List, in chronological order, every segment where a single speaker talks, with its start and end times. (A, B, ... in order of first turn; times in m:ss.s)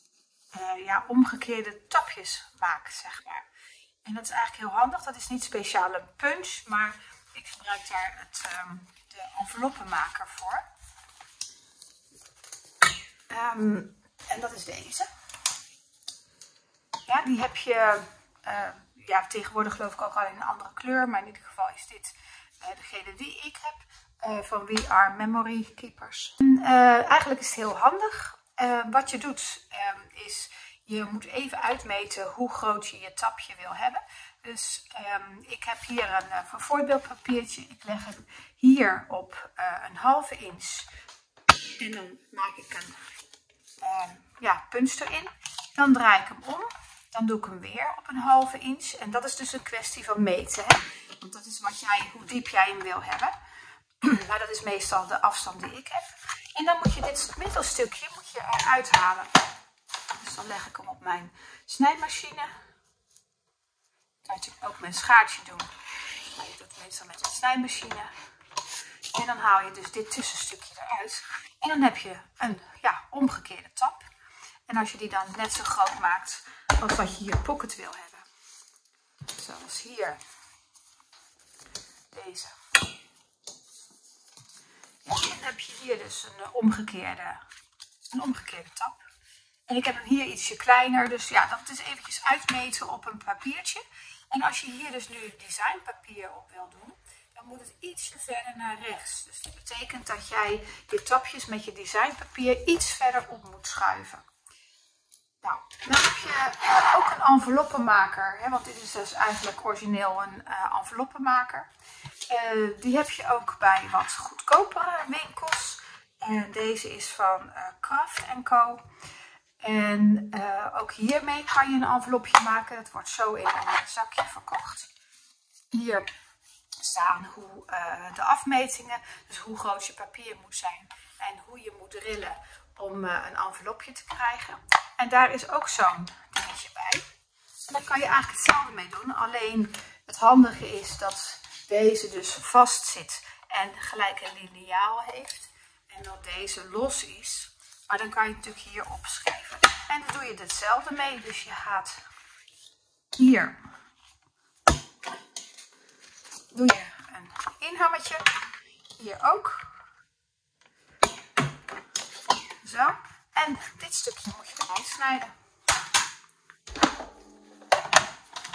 0:00.5-0:03.5 A
0:04.0-0:10.7 A
0:13.3-0:15.1 A
0:17.0-0:40.9 A
0:41.8-0:43.0 A
0:43.8-0:53.3 A
0:54.0-0:59.3 A
1:00.2-1:02.5 A
1:04.2-1:05.7 A
1:06.3-1:08.1 A
1:09.1-1:14.1 A
1:14.7-1:18.2 A
1:19.3-1:20.2 A
1:22.1-1:22.6 A
1:25.0-1:27.4 A
1:28.1-1:29.0 A
1:29.7-1:44.2 A
1:45.4-1:51.7 A
1:52.3-1:58.9 A
1:59.6-2:04.9 A
2:05.7-2:06.1 A
2:06.8-2:17.0 A
2:17.6-2:32.0 A
2:33.2-2:33.6 A
2:36.5-2:38.3 A
2:39.0-2:39.8 A
2:42.6-2:45.3 A